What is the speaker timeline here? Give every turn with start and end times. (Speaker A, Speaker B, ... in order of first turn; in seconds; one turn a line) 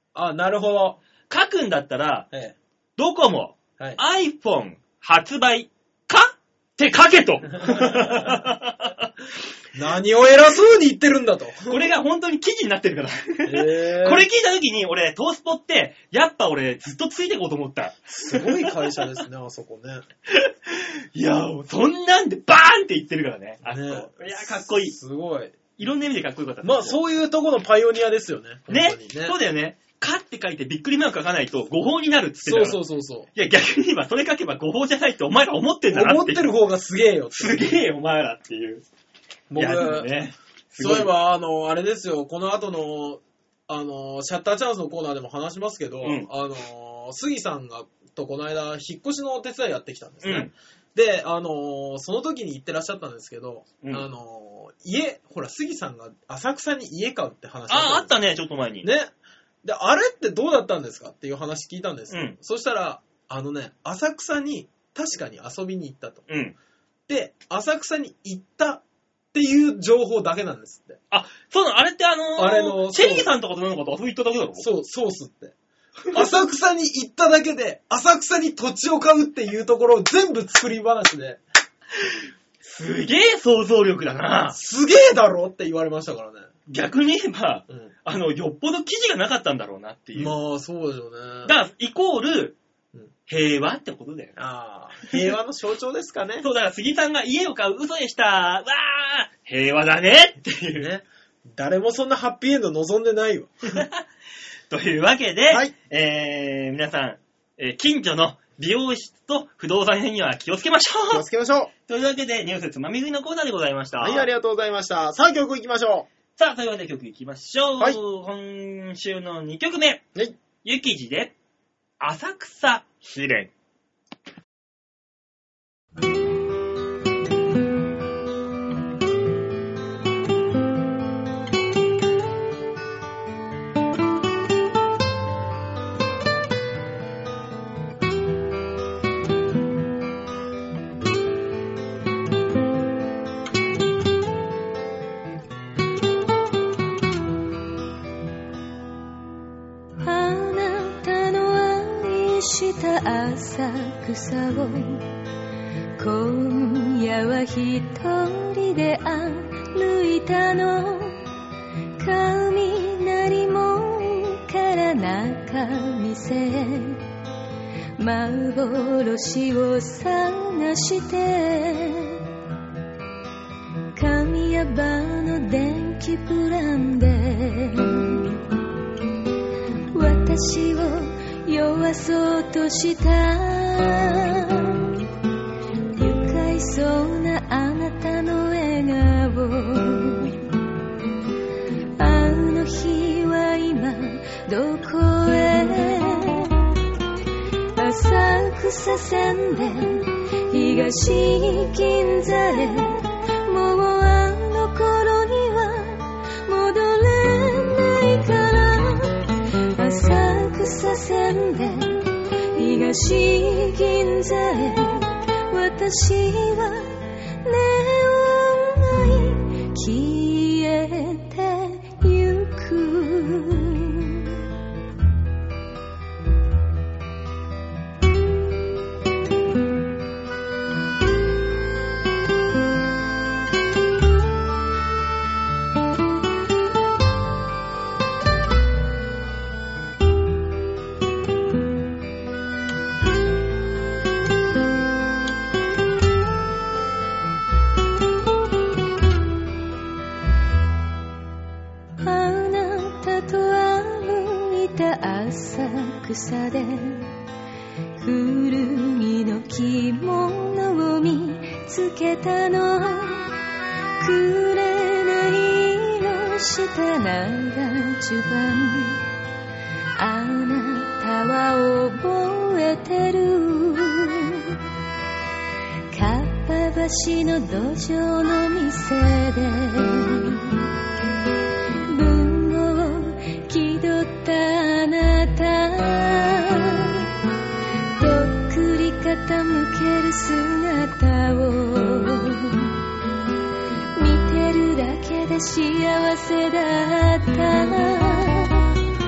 Speaker A: 0.1-1.0
Speaker B: 1.3-2.3
Speaker B: 3.0-9.1
Speaker A: 7.6-8.4
Speaker A: 9.7-11.9
Speaker B: 11.7-19.0
Speaker A: 13.4-14.3
Speaker A: 18.1-20.0
Speaker B: 20.3-24.9
Speaker A: 23.6-25.6
Speaker B: 25.8-27.0
Speaker A: 26.6-29.4
Speaker B: 28.7-32.8
Speaker A: 32.4-33.3
Speaker B: 33.3-36.5
Speaker A: 35.9-37.8
Speaker B: 37.3-38.8
Speaker A: 39.5-40.1
Speaker B: 39.6-41.1
Speaker A: 40.8-58.1
Speaker B: 46.0-46.3
Speaker B: 50.2-50.5
Speaker B: 57.7-58.9
Speaker A: 58.8-59.1
Speaker A: 59.6-66.2
Speaker B: 62.1-62.4
Speaker B: 66.3-66.5
Speaker A: 67.1-68.8
Speaker A: 69.3-71.0
Speaker B: 71.1-74.7
Speaker A: 72.4-73.3
Speaker A: 74.6-75.5
Speaker A: 76.1-81.4
Speaker B: 82.0-84.5
Speaker A: 84.5-86.5
Speaker B: 86.7-90.3
Speaker A: 90.2-91.5
Speaker B: 91.4-92.6
Speaker B: 93.3-94.3
Speaker A: 94.4-96.5
Speaker B: 96.4-100.9
Speaker A: 100.7-103.8
Speaker B: 103.7-104.0
Speaker B: 104.7-111.2
Speaker A: 111.1-111.7
Speaker B: 111.9-114.3
Speaker A: 114.0-116.1
Speaker B: 116.3-120.1
Speaker B: 120.6-121.3
Speaker B: 122.0-123.5
Speaker C: 150.0-155.1
Speaker C: 156.0-161.2
Speaker C: 162.0-167.0
Speaker C: 168.0-172.2
Speaker C: 173.9-178.3
Speaker C: 179.9-185.0
Speaker C: 185.9-190.4
Speaker C: 192.0-196.7
Speaker C: 197.8-224.4
Speaker C: 252.0-257.1
Speaker C: 258.0-263.3
Speaker C: 264.0-269.0
Speaker C: 270.0-274.6
Speaker C: 275.9-280.7
Speaker C: 281.9-287.1
Speaker C: 288.0-292.7
Speaker C: 293.9-298.8